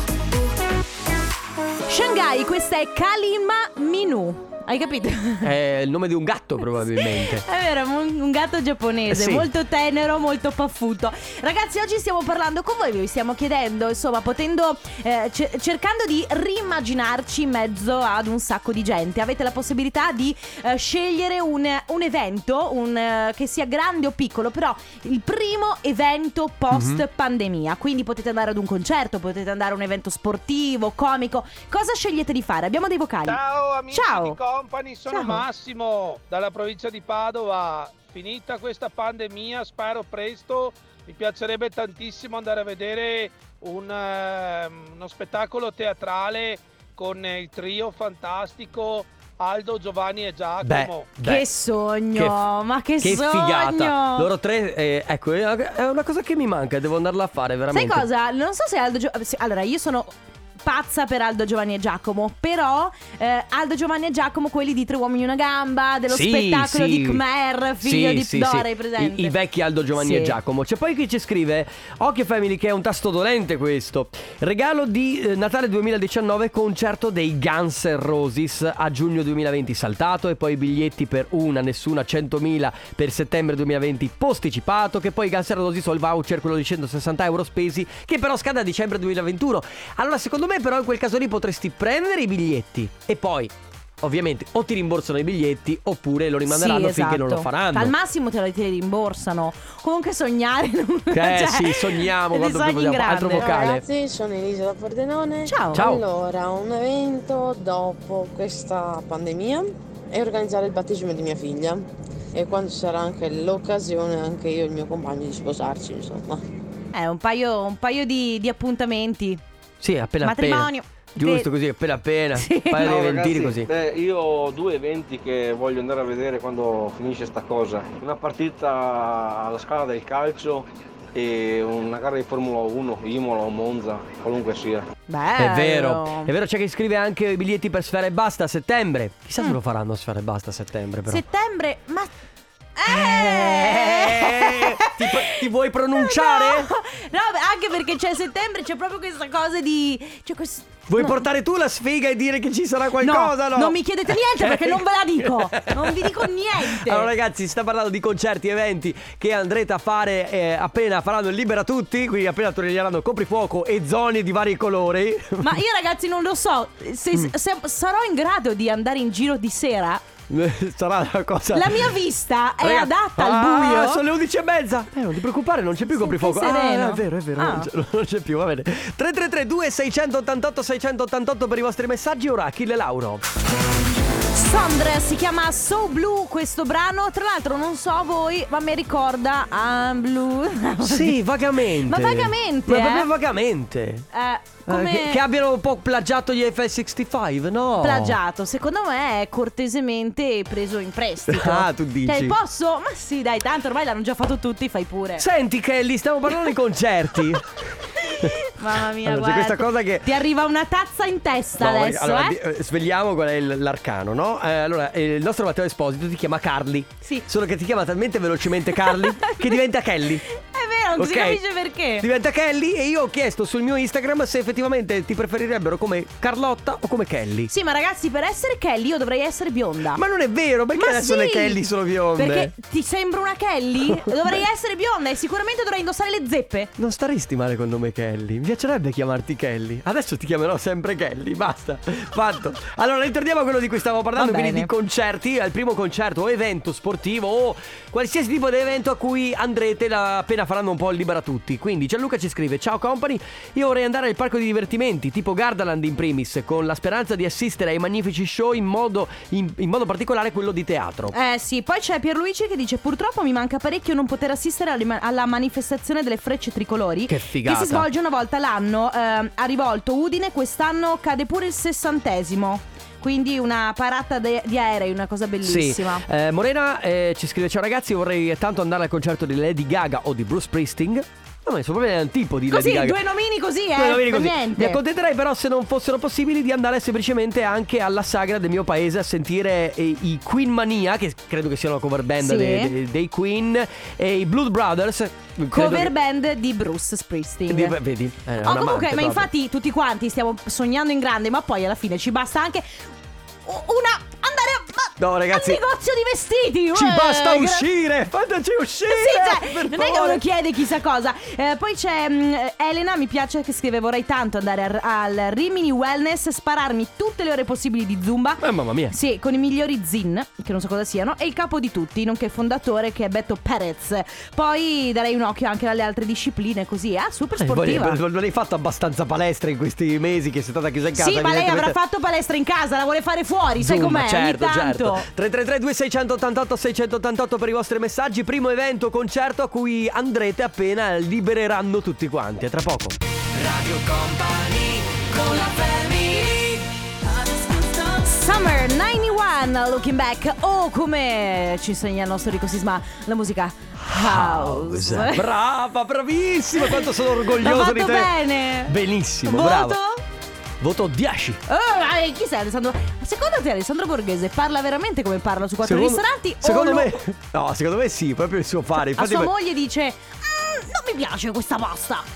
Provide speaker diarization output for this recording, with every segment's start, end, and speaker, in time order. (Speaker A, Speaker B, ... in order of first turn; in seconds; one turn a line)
Speaker A: 1.9-5.5
Speaker B: 5.4-7.4
Speaker A: 7.0-34.4
Speaker B: 9.1-9.5
Speaker B: 26.7-27.0
Speaker C: 33.2-51.2
Speaker A: 35.1-35.5
Speaker B: 50.6-51.5
Speaker A: 51.2-54.3
Speaker B: 53.0-58.1
Speaker A: 57.7-69.3
Speaker B: 66.1-67.2
Speaker B: 67.8-97.9
Speaker A: 70.0-70.4
Speaker A: 96.5-103.7
Speaker B: 101.1-103.8
Speaker D: 103.5-116.4
Speaker A: 105.5-105.9
Speaker B: 105.7-106.0
Speaker A: 116.9-119.4
Speaker B: 119.8-123.7
Speaker A: 120.2-121.5
Speaker A: 122.4-123.0
Speaker E: 122.8-134.9
Speaker A: 135.1-136.3
Speaker B: 135.4-141.2
Speaker A: 141.1-142.1
Speaker A: 142.8-145.1
Speaker B: 142.9-146.7
Speaker A: 146.0-151.2
Speaker B: 150.9-165.5
Speaker A: 153.0-157.1
Speaker A: 165.4-170.0
Speaker B: 170.3-171.9
Speaker A: 171.5-174.0
Speaker B: 172.6-183.2
Speaker A: 175.9-177.7
Speaker A: 184.3-191.2
Speaker B: 190.8-194.1
Speaker A: 191.8-193.1
Speaker A: 194.1-195.2
Speaker B: 194.7-198.2
Speaker A: 197.8-205.2
Speaker B: 201.3-202.4
Speaker B: 205.2-207.6
Speaker A: 208.2-212.4
Speaker B: 209.1-210.1
Speaker B: 211.6-220.2
Speaker A: 218.8-219.5
Speaker A: 220.4-222.1
Speaker B: 221.0-221.4
Speaker B: 222.0-227.5
Speaker A: 227.5-230.0
Speaker B: 229.9-232.5
Speaker A: 230.8-231.6
Speaker A: 232.2-236.7
Speaker B: 236.8-261.1
Speaker A: 244.2-244.7
Speaker A: 261.1-276.0
Speaker B: 267.1-267.9
Speaker B: 275.4-283.0
Speaker A: 282.5-284.8
Speaker B: 283.8-295.9
Speaker A: 292.2-292.7
Speaker A: 295.5-297.8
Speaker B: 297.5-299.3
Speaker A: 298.4-302.8
Speaker A: 303.5-307.6
Speaker B: 305.0-305.6
Speaker B: 306.7-310.2
Speaker A: 308.9-328.0
Speaker B: 318.4-318.9
Speaker B: 327.4-331.8
Speaker A: 330.9-335.1
Speaker B: 333.6-343.0
Speaker A: 345.4-345.8
Speaker A: 347.2-355.2
Speaker B: 353.8-358.1
Speaker A: 357.4-360.0
Speaker B: 358.7-359.8
Speaker B: 360.6-361.4
Speaker A: 361.5-366.9
Speaker B: 365.6-369.3
Speaker A: 369.0-372.1